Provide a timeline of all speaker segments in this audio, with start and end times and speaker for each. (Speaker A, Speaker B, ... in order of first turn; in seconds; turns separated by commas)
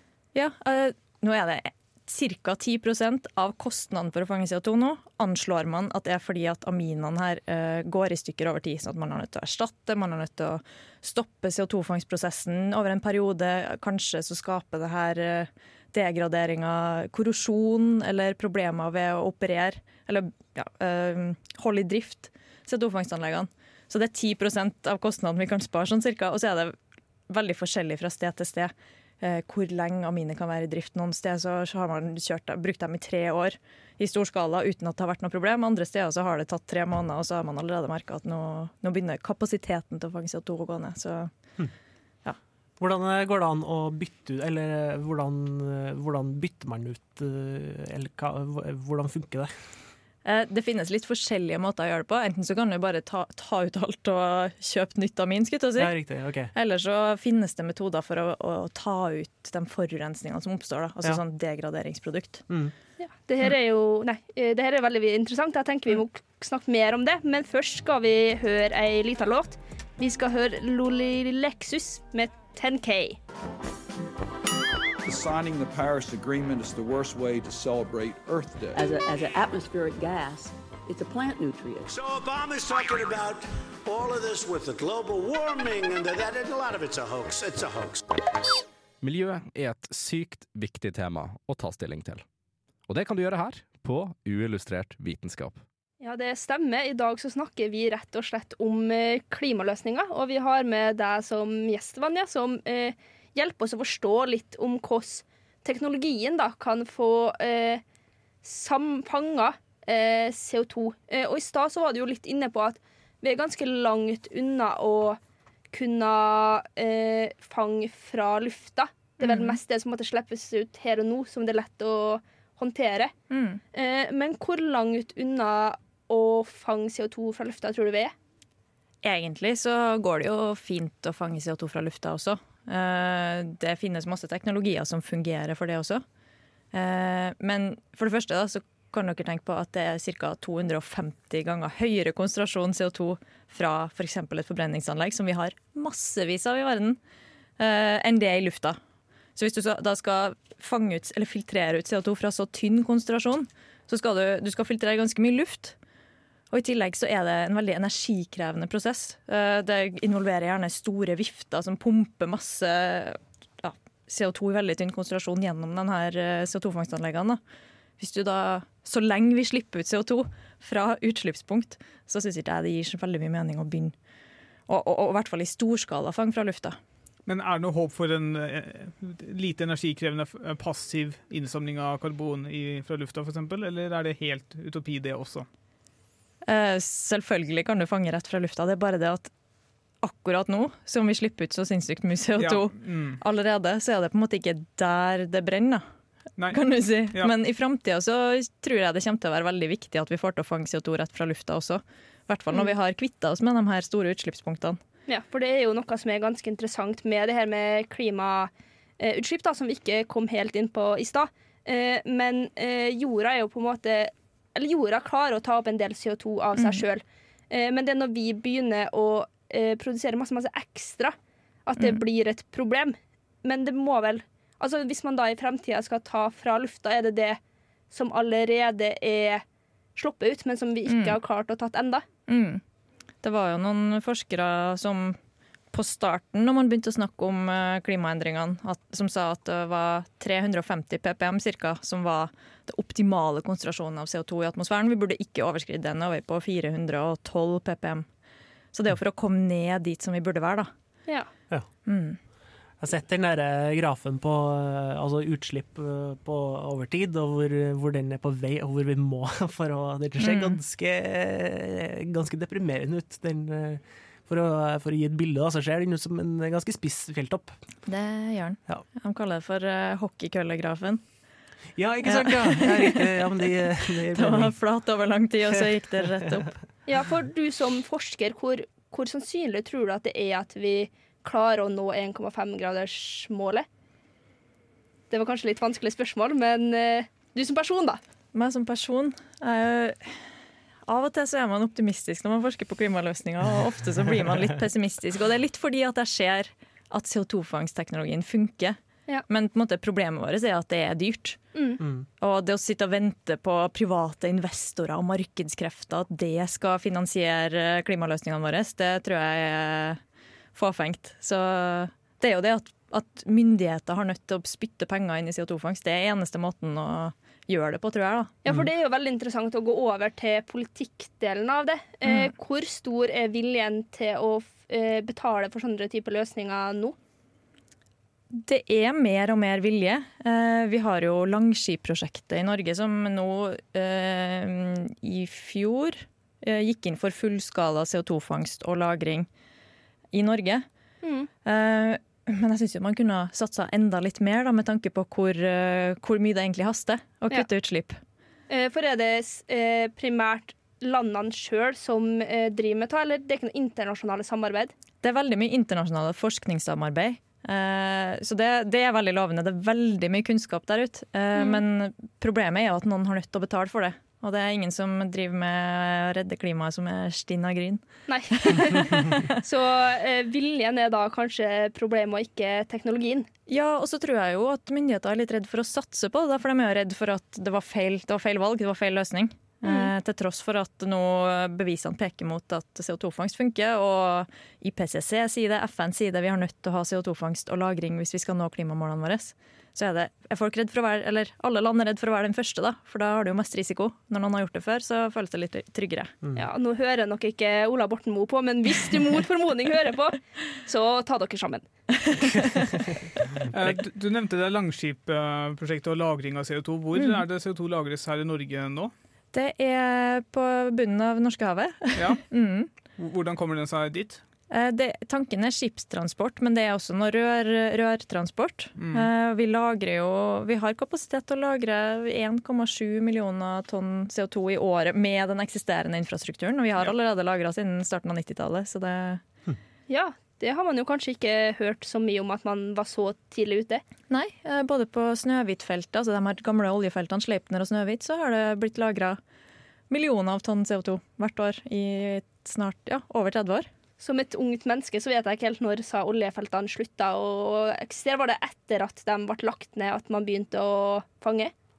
Speaker A: 0.3-26.8, Speaker A: 27.3-41.3, Speaker B: 42.8-49.5, Speaker A: 50.2-55.9, Speaker B: 55.8-56.5, Speaker A: 56.5-62.5, Speaker B: 62.5-62.7, Speaker C: 63.0-73.2, Speaker D: 75.0-78.8, Speaker E: 78.8-81.9, Speaker F: 81.9-88.0, Speaker G: 89.0-92.2, Speaker G: 92.9-95.6, Speaker C: 96.0-107.8, Speaker C: 108.4-115.2, Speaker C: 115.7-123.1, Speaker A: 119.2-119.6, Speaker A: 123.3-123.6, Speaker C: 123.7-128.1, Speaker A: 129.0-136.0, Speaker A: 136.7-147.0, Speaker A: 147.6-148.8, Speaker A: 149.4-155.8, Speaker A: 156.5-167.4, Speaker A: 168.0-174.0, Speaker A: 174.7-176.8, Speaker H: 177.3-185.5, Speaker A: 186.4-189.3, Speaker A: 190.0-195.8, Speaker H: 192.4-193.2, Speaker A: 196.5-204.8, Speaker C: 205.1-227.4, Speaker A: 216.6-216.8, Speaker C: 227.9-229.4, Speaker C: 230.0-232.1, Speaker A: 230.9-231.2, Speaker A: 232.3-232.6, Speaker A: 233.2-235.2, Speaker A: 235.7-248.1, Speaker A: 248.7-250.7, Speaker A: 251.8-252.2, Speaker B: 252.8-267.6, Speaker A: 260.2-260.6, Speaker A: 267.9-271.0, Speaker B: 271.8-274.5, Speaker A: 272.1-273.2, Speaker A: 274.1-276.5, Speaker C: 276.9-283.7, Speaker C: 285.1-288.0, Speaker A: 288.3-290.3, Speaker A: 290.9-301.4, Speaker C: 301.6-301.8, Speaker B: 301.8-302.1, Speaker A: 302.2-310.0, Speaker A: 310.5-318.4, Speaker C: 318.4-327.0, Speaker A: 322.1-322.3, Speaker A: 328.3-339.3, Speaker A: 340.1-340.7, Speaker C: 341.0-341.3, Speaker A: 341.4-348.0, Speaker C: 348.5-354.7, Speaker A: 355.0-369.4, Speaker C: 361.4-361.6, Speaker C: 368.1-373.3, Speaker A: 373.5-396.1, Speaker C: 379.6-379.9, Speaker C: 396.4-401.7, Speaker A: 402.0-402.6, Speaker B: 402.3-403.8, Speaker H: 403.5-408.9, Speaker A: 406.9-407.2, Speaker A: 409.3-412.7, Speaker H: 411.9-412.2, Speaker H: 413.0-414.2, Speaker A: 414.5-429.2, Speaker H: 418.8-419.1, Speaker C: 429.9-433.8, Speaker A: 434.1-439.2, Speaker A: 439.9-443.7, Speaker C: 444.0-451.5